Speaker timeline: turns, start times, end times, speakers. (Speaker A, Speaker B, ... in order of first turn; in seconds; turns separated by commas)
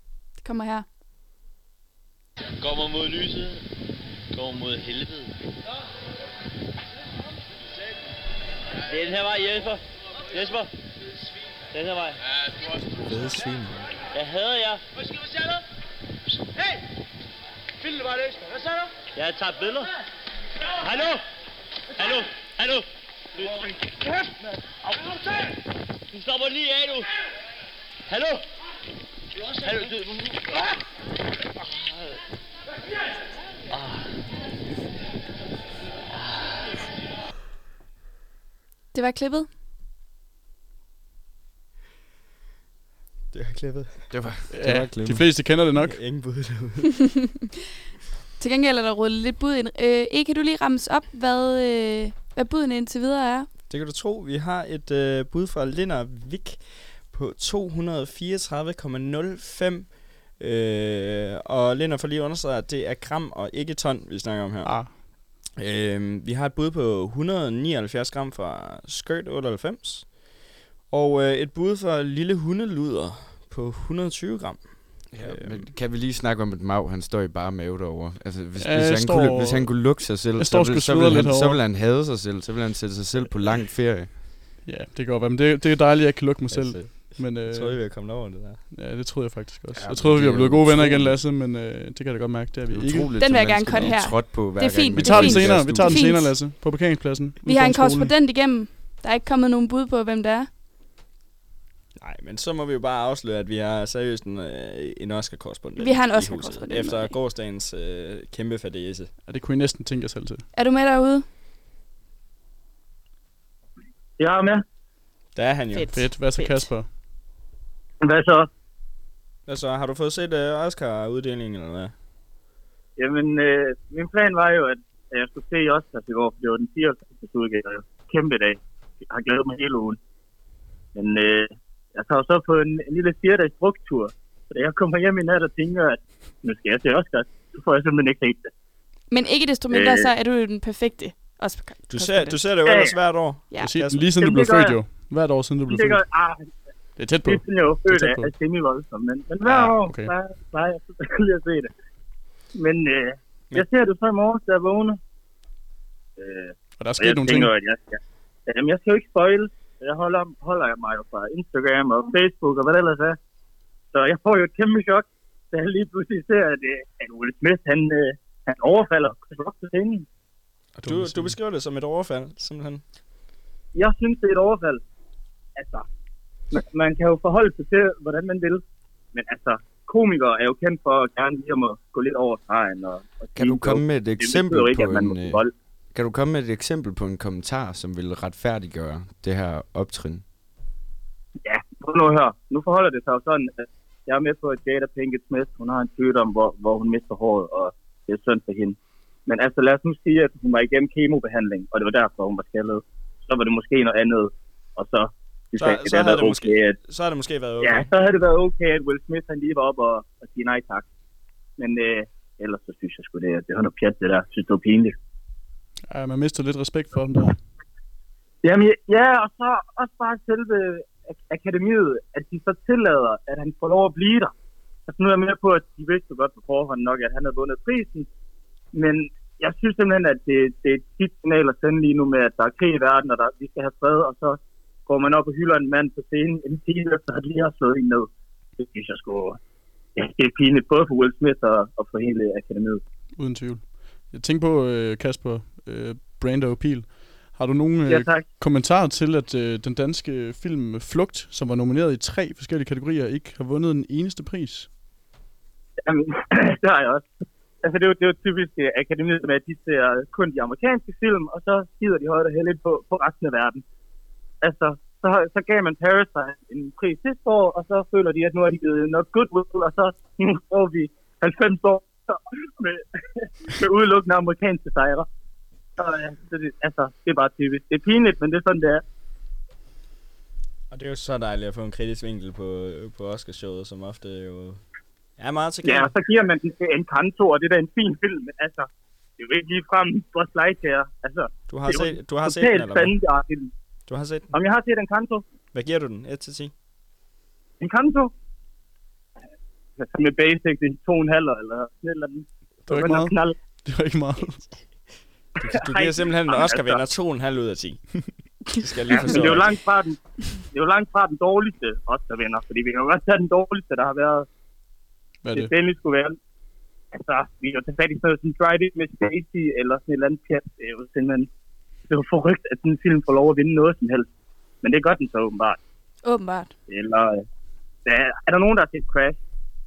Speaker A: 0.4-0.8, Speaker B: 2.6-3.6, Speaker B: 4.3-5.3, Speaker B: 8.9-10.7, Speaker B: 11.7-12.2, Speaker C: 13.1-13.9, Speaker B: 14.1-14.8, Speaker B: 19.1-19.9, Speaker B: 20.8-21.2, Speaker B: 21.9-22.9, Speaker B: 23.4-23.7, Speaker B: 26.1-27.1, Speaker B: 28.1-28.4, Speaker B: 29.6-30.2, Speaker B: 33.7-34.0, Speaker A: 38.9-39.5, Speaker C: 43.3-44.1, Speaker D: 44.1-45.3, Speaker E: 44.5-46.0, Speaker C: 45.7-47.1, Speaker A: 48.4-53.5, Speaker C: 53.7-75.7, Speaker E: 64.6-65.0, Speaker D: 75.1-84.2, Speaker E: 78.6-81.6, Speaker E: 84.6-93.1, Speaker C: 86.5-88.6, Speaker D: 89.7-91.2, Speaker D: 92.7-96.0, Speaker A: 93.2-96.8, Speaker E: 95.0-98.1, Speaker A: 97.4-100.5, Speaker C: 102.0-109.1, Speaker A: 105.8-107.2, Speaker E: 109.2-110.5, Speaker A: 110.5-111.2, Speaker F: 114.2-114.6, Speaker C: 115.3-116.2, Speaker A: 115.7-116.7, Speaker E: 115.9-116.9, Speaker F: 118.0-118.5, Speaker C: 119.5-121.9, Speaker F: 123.0-130.0, Speaker F: 130.9-138.5, Speaker A: 139.1-142.4, Speaker F: 139.7-140.1, Speaker C: 141.9-144.2, Speaker F: 142.6-142.9, Speaker E: 143.6-146.0, Speaker F: 144.2-144.8, Speaker F: 145.7-146.5, Speaker E: 147.0-148.3, Speaker F: 147.2-151.7, Speaker E: 149.4-150.1, Speaker F: 152.5-155.0, Speaker F: 156.2-163.2, Speaker E: 156.8-157.5, Speaker F: 163.9-170.1, Speaker C: 170.8-172.8, Speaker E: 170.8-171.3, Speaker F: 173.7-174.8, Speaker F: 175.6-175.9, Speaker F: 176.5-178.6, Speaker F: 179.1-185.5, Speaker D: 183.3-190.2, Speaker F: 191.4-206.8, Speaker C: 205.5-207.9, Speaker F: 207.6-210.9, Speaker F: 211.6-214.9, Speaker E: 215.9-217.4, Speaker F: 218.4-224.3, Speaker F: 224.9-228.1, Speaker F: 228.7-239.4, Speaker F: 239.9-242.8, Speaker E: 243.2-254.7, Speaker F: 247.9-248.3, Speaker F: 255.8-257.1, Speaker F: 257.6-263.6, Speaker F: 264.4-275.1, Speaker F: 275.8-278.8, Speaker C: 280.7-284.6, Speaker C: 285.2-285.9, Speaker F: 285.6-293.5, Speaker C: 291.5-292.9, Speaker C: 293.9-294.3, Speaker F: 294.3-295.2, Speaker C: 295.5-296.5, Speaker F: 297.6-298.1, Speaker F: 299.8-303.4, Speaker E: 302.7-304.7, Speaker C: 304.5-309.6, Speaker F: 305.4-306.9, Speaker F: 309.0-314.3, Speaker E: 315.2-315.5, Speaker F: 315.3-316.2, Speaker F: 316.9-321.3, Speaker F: 321.9-324.1, Speaker F: 324.6-325.6, Speaker A: 326.0-326.5, Speaker F: 326.7-327.2, Speaker F: 327.8-329.2